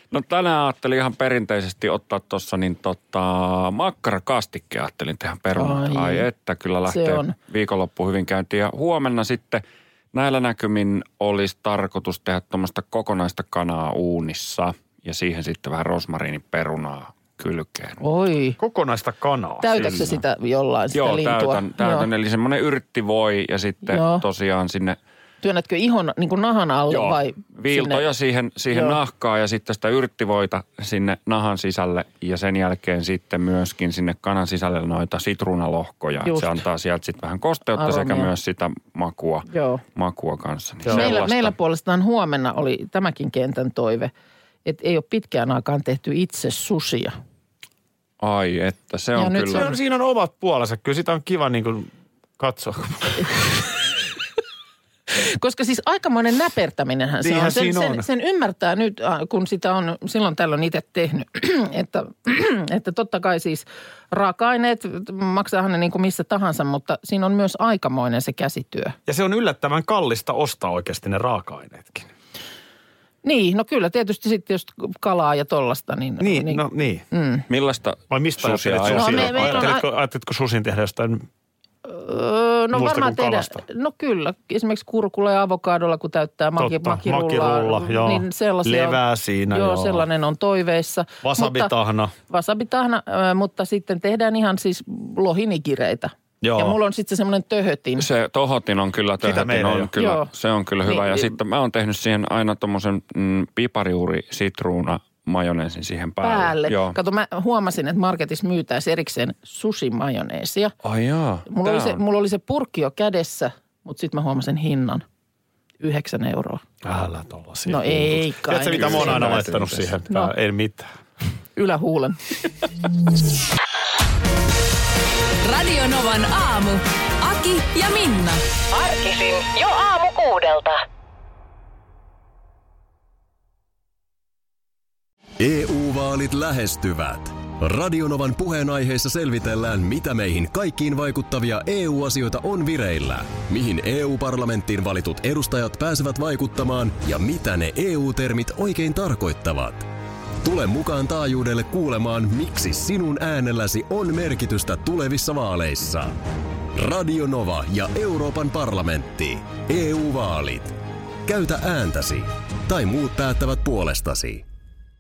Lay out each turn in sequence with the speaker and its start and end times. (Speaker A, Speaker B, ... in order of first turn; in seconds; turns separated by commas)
Speaker A: 0.1-9.6, Speaker B: 5.6-6.3, Speaker B: 6.9-7.3, Speaker A: 10.1-18.0, Speaker B: 18.0-18.6, Speaker C: 18.6-20.1, Speaker B: 19.6-22.1, Speaker A: 20.9-25.0, Speaker B: 23.9-24.2, Speaker B: 25.4-28.0, Speaker A: 26.9-41.5, Speaker B: 28.7-29.0, Speaker B: 36.2-36.6, Speaker B: 37.8-38.3, Speaker B: 39.5-39.8, Speaker C: 40.9-41.1, Speaker B: 40.9-44.1, Speaker B: 44.6-47.1, Speaker A: 48.2-49.7, Speaker B: 49.1-49.7, Speaker C: 49.5-53.4, Speaker B: 55.1-69.0, Speaker C: 57.2-58.1, Speaker C: 69.1-72.1, Speaker B: 73.2-77.5, Speaker C: 76.2-77.0, Speaker A: 77.5-79.7, Speaker C: 78.1-81.2, Speaker B: 78.9-79.8, Speaker B: 81.8-91.7, Speaker C: 82.7-83.6, Speaker C: 86.6-90.1, Speaker C: 91.2-92.1, Speaker B: 92.3-98.0, Speaker C: 96.4-96.8, Speaker A: 98.0-107.0, Speaker C: 99.2-99.9, Speaker B: 100.0-100.3, Speaker B: 100.8-101.3, Speaker B: 106.2-110.7, Speaker A: 110.8-112.0, Speaker B: 111.5-115.0, Speaker B: 115.8-116.6, Speaker C: 116.8-120.9, Speaker B: 117.7-119.4, Speaker A: 118.8-119.9, Speaker B: 121.6-122.7, Speaker D: 125.5-128.4, Speaker E: 128.7-130.8, Speaker F: 135.4-149.9, Speaker F: 150.4-156.2, Speaker F: 156.8-164.4